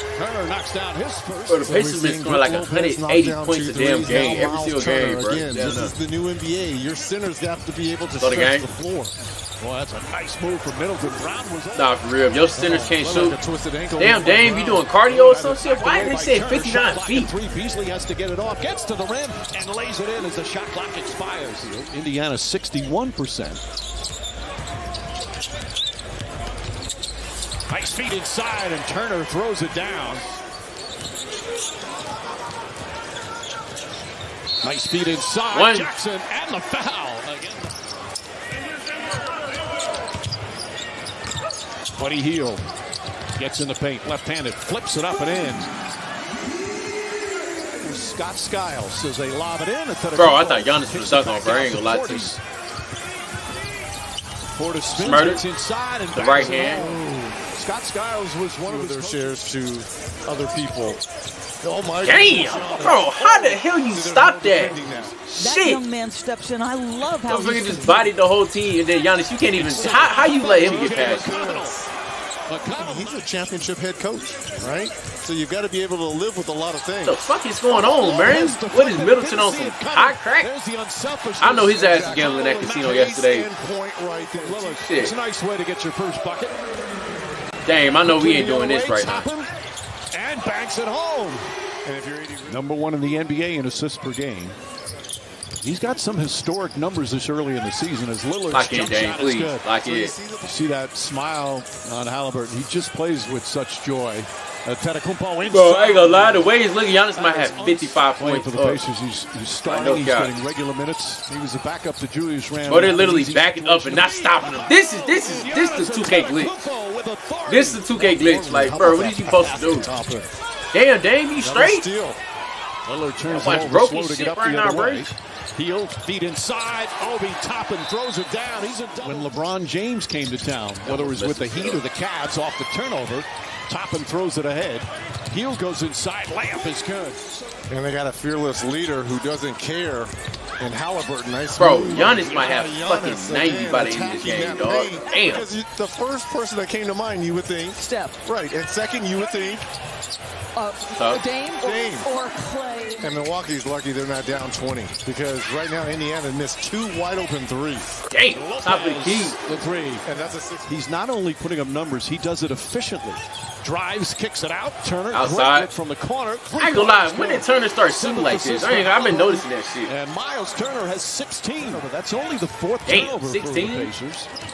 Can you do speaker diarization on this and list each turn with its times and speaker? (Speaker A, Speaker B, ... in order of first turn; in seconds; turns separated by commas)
Speaker A: 0.1-1.6, Speaker B: 1.5-5.9, Speaker C: 1.6-9.1, Speaker B: 8.2-8.7, Speaker A: 9.6-12.0, Speaker B: 11.7-13.4, Speaker C: 12.6-15.8, Speaker B: 14.0-17.3, Speaker A: 15.6-23.6, Speaker A: 27.7-30.4, Speaker A: 34.6-37.7, Speaker B: 35.5-35.9, Speaker A: 42.0-42.7, Speaker A: 43.3-45.7, Speaker A: 47.8-52.4, Speaker B: 50.1-52.3, Speaker A: 54.5-57.0, Speaker B: 54.9-55.4, Speaker B: 56.1-56.8, Speaker C: 56.4-57.4, Speaker A: 57.5-59.4, Speaker C: 58.7-61.0, Speaker C: 61.6-65.2, Speaker B: 62.0-65.8, Speaker D: 65.4-68.0, Speaker B: 67.3-71.3, Speaker A: 69.5-71.8, Speaker C: 70.2-71.9, Speaker A: 72.5-73.0, Speaker C: 72.7-77.2, Speaker B: 77.0-80.5, Speaker A: 77.7-82.8, Speaker B: 81.4-83.5, Speaker C: 81.6-84.8, Speaker A: 84.3-86.6, Speaker B: 84.8-85.1, Speaker B: 87.7-89.3, Speaker A: 88.0-89.5, Speaker A: 90.1-91.5, Speaker C: 91.8-92.6, Speaker A: 92.5-94.6, Speaker A: 95.6-99.7, Speaker B: 98.5-100.1, Speaker C: 99.7-100.6, Speaker A: 100.4-106.5, Speaker B: 105.4-108.8, Speaker A: 107.1-118.6, Speaker B: 109.7-110.3, Speaker B: 112.7-116.7, Speaker B: 117.5-119.9, Speaker C: 118.5-120.3, Speaker B: 120.7-121.9, Speaker C: 121.4-122.2, Speaker A: 122.9-137.2, Speaker B: 123.3-125.1, Speaker B: 130.8-131.8, Speaker C: 137.7-149.7, Speaker B: 141.6-145.5, Speaker D: 147.8-148.2, Speaker D: 150.6-153.1, Speaker B: 150.9-151.2, Speaker C: 151.6-152.1, Speaker C: 153.0-157.9, Speaker B: 158.1-159.4, Speaker A: 158.3-160.1, Speaker C: 160.1-160.8, Speaker A: 160.7-174.3, Speaker B: 165.1-165.7, Speaker B: 166.6-169.9, Speaker B: 172.9-173.9